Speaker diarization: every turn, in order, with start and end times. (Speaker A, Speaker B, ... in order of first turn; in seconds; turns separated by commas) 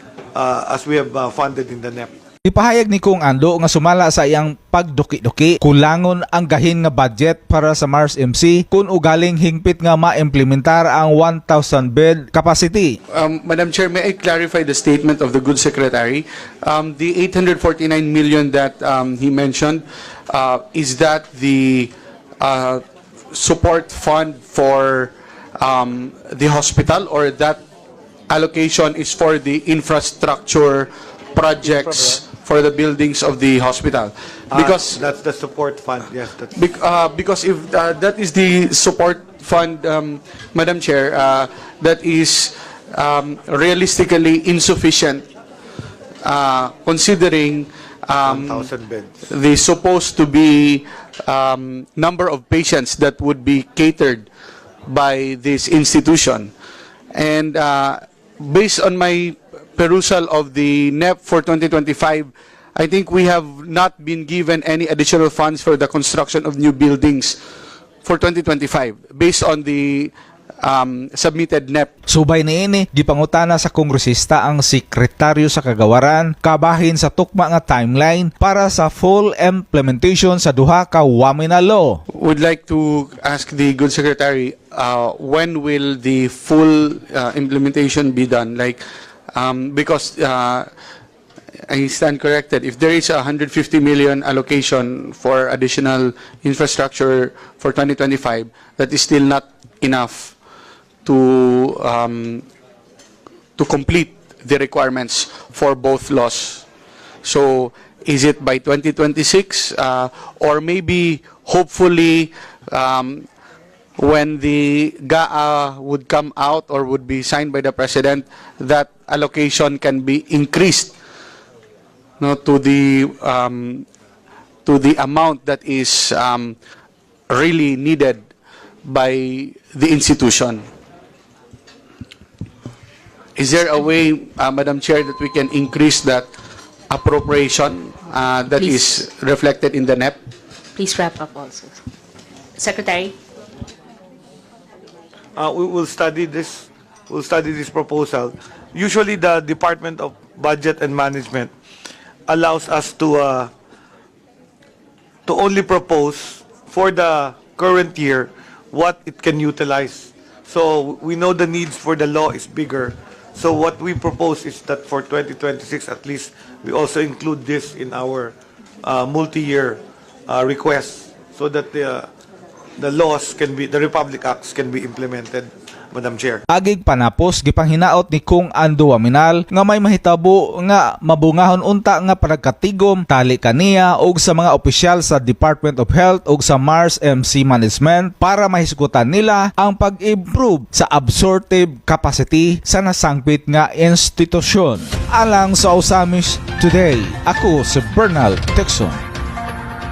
Speaker A: 0.3-2.1, Speaker B: 2.5-13.0, Speaker C: 13.1-27.6, Speaker C: 28.3-35.0, Speaker A: 31.8-32.2, Speaker A: 34.5-36.6, Speaker C: 36.5-45.3, Speaker C: 46.2-48.7, Speaker A: 48.2-49.1, Speaker C: 49.3-54.3, Speaker C: 54.9-56.5, Speaker C: 57.1-67.4, Speaker C: 68.0-71.9, Speaker B: 72.1-82.0, Speaker C: 82.1-90.7, Speaker C: 91.7-100.3, Speaker C: 101.0-102.4, Speaker C: 103.6-106.7, Speaker C: 107.2-113.3, Speaker C: 114.0-120.9, Speaker C: 122.2-123.9, Speaker C: 124.7-126.6, Speaker C: 127.3-128.2, Speaker C: 128.8-130.7, Speaker C: 133.4-136.3, Speaker C: 136.9-140.2, Speaker D: 138.6-138.8, Speaker D: 140.8-141.8, Speaker D: 142.6-143.2, Speaker A: 145.4-151.5, Speaker A: 152.3-153.5, Speaker A: 155.3-172.1, Speaker A: 172.8-176.4, Speaker B: 176.5-199.0